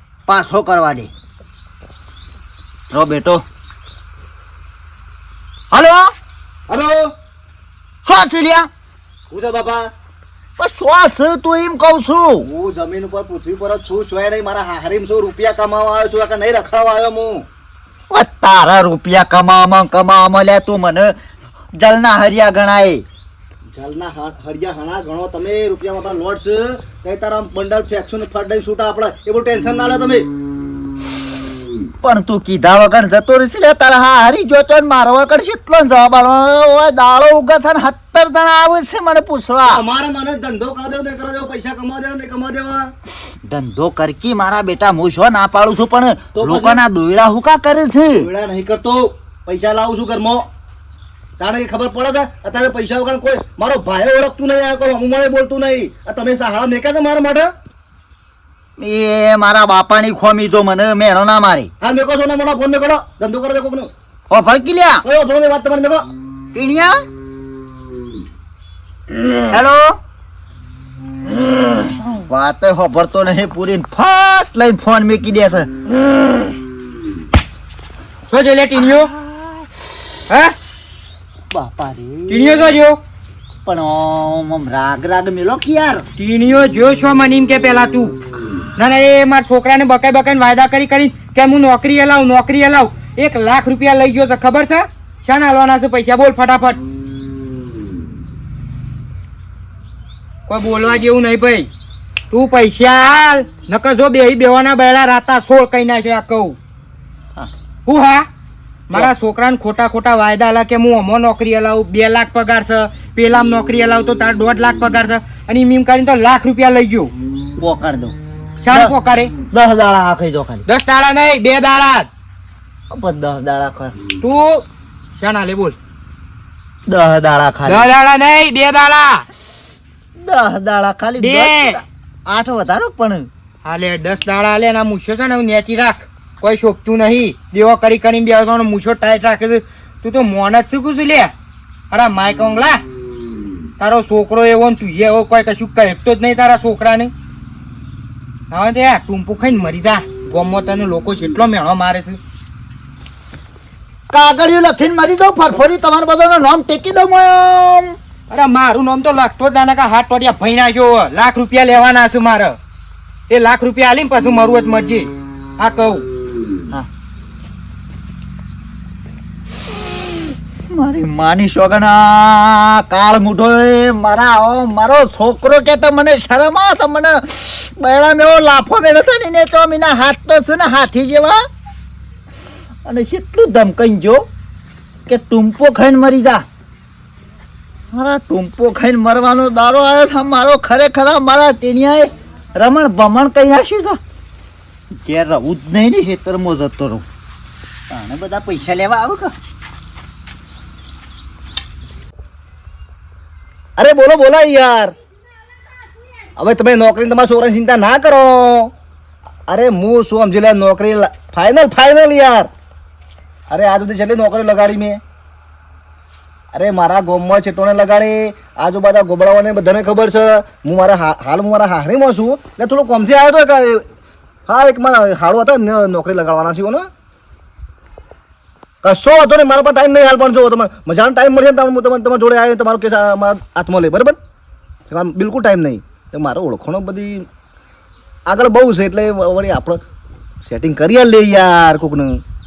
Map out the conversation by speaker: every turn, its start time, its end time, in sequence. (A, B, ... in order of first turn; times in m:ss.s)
0:00.3-0:01.1 A
0:02.9-0:03.4 A
0:05.7-0:06.1 A
0:06.7-0:07.1 B
0:08.0-0:08.7 A
0:09.3-0:09.9 B
0:10.6-0:12.5 A
0:12.4-0:17.5 B
0:18.1-0:21.2 A
0:21.8-0:23.0 A
0:23.7-0:30.3 B
0:32.0-0:39.8 A
0:39.6-0:42.9 B
0:43.4-0:48.3 A
0:46.3-0:46.8 B
0:48.2-0:50.5 B
0:51.4-0:57.5 B
0:58.8-1:01.7 A
1:01.8-1:03.9 B
1:04.3-1:05.1 A
1:05.1-1:06.1 B
1:06.5-1:07.1 A
1:09.5-1:10.0 A
1:11.6-1:15.7 A
1:18.3-1:19.1 C
1:20.3-1:20.5 C
1:21.5-1:22.6 A
1:22.3-1:23.0 C
1:23.6-1:26.1 A
1:26.2-1:28.2 C
1:28.8-1:36.8 C
1:40.5-1:41.7 C
1:42.3-1:46.6 C
1:47.9-1:48.3 C
1:48.9-1:57.1 C
1:57.6-1:58.2 A
1:58.6-1:59.3 C
1:59.5-2:00.6 A
2:00.7-2:02.1 C
2:02.9-2:04.0 A
2:04.2-2:04.6 C
2:05.2-2:05.8 C
2:06.9-2:07.9 A
2:07.6-2:09.2 C
2:10.2-2:13.3 A
2:11.2-2:11.8 C
2:13.6-2:21.3 C
2:21.9-2:22.8 C
2:23.8-2:27.1 C
2:28.5-2:32.2 C
2:34.1-2:38.0 A
2:38.3-2:42.6 C
2:43.3-2:46.0 C
2:50.7-3:01.5 A
3:02.8-3:04.3 A
3:05.1-3:06.4 A
3:07.9-3:14.0 A
3:15.0-3:17.0 A
3:17.9-3:19.3 A
3:23.8-3:24.9 B
3:26.4-3:28.7 B
3:29.5-3:32.5 B
3:33.5-3:35.0 B
3:36.5-3:43.8 B
3:44.5-3:46.9 B
3:48.8-3:54.2 B
3:54.9-3:57.3 B
3:58.3-3:59.8 B
4:00.4-4:02.2 B